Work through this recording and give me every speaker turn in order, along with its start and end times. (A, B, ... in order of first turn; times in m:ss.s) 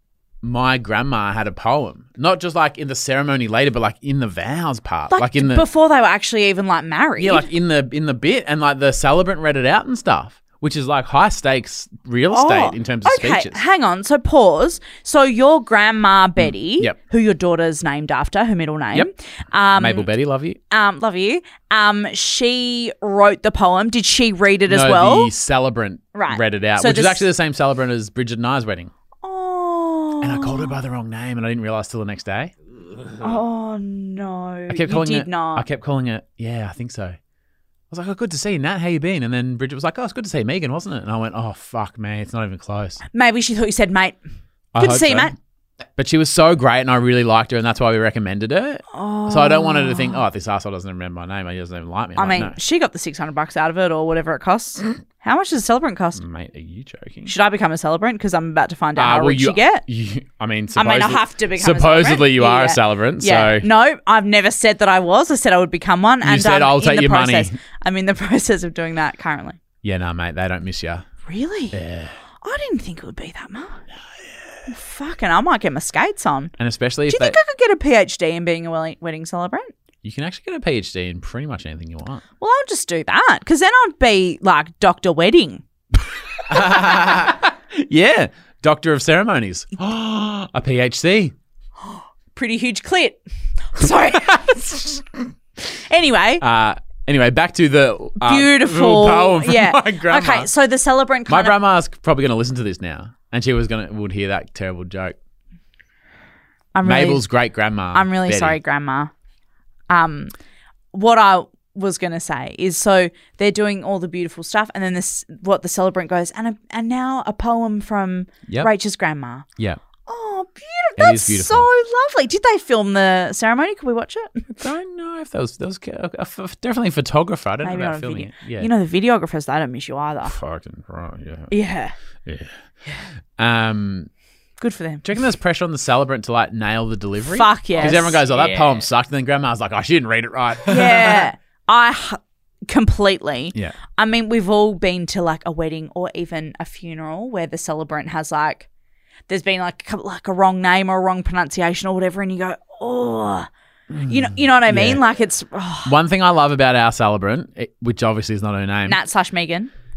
0:00.4-0:05.6 A
0:05.1-0:07.5 B
0:07.2-0:13.6 A
0:12.3-0:20.1 B
0:16.4-0:17.0 A
0:19.8-0:20.6 A
0:20.7-0:25.3 B
0:24.7-0:28.9 A
0:26.1-0:27.2 B
0:29.2-0:30.7 B
0:30.2-0:32.5 A
0:33.2-0:35.6 B
0:34.7-0:37.2 A
0:37.9-0:43.0 A
0:43.1-0:44.2 B
0:44.8-0:45.3 A
0:44.8-0:45.3 B
0:46.0-0:52.6 A
0:48.9-0:50.2 B
0:52.2-0:56.2 B
0:56.2-0:57.3 A
0:57.3-0:59.8 B
0:59.0-1:03.7 A
1:00.8-1:09.6 B
1:06.2-1:07.6 A
1:09.8-1:11.0 A
1:11.3-1:11.8 B
1:11.7-1:12.2 A
1:12.4-1:13.8 B
1:14.7-1:16.6 B
1:16.6-1:17.4 A
1:17.1-1:19.7 B
1:20.0-1:22.2 A
1:22.4-1:25.6 B
1:26.5-1:31.3 A
1:31.9-1:33.2 B
1:33.8-1:35.0 B
1:35.8-1:36.4 B
1:36.4-1:40.5 A
1:38.2-1:41.6 B
1:41.3-1:45.2 A
1:46.8-1:47.2 B
1:46.8-1:48.6 A
1:47.9-1:49.1 B
1:49.9-1:50.3 B
1:50.9-1:59.5 B
2:00.1-2:04.5 B
2:01.0-2:01.7 A
2:04.5-2:08.7 A
2:07.6-2:10.3 B
2:10.3-2:11.5 A
2:11.5-2:11.9 B
2:12.3-2:12.6 A
2:13.4-2:14.1 A
2:14.6-2:15.0 B
2:15.0-2:21.2 A
2:17.3-2:18.2 B
2:20.7-2:28.7 B
2:29.3-2:33.5 B
2:33.9-2:35.0 A
2:34.1-2:35.9 B
2:35.8-2:39.0 A
2:38.9-2:39.7 B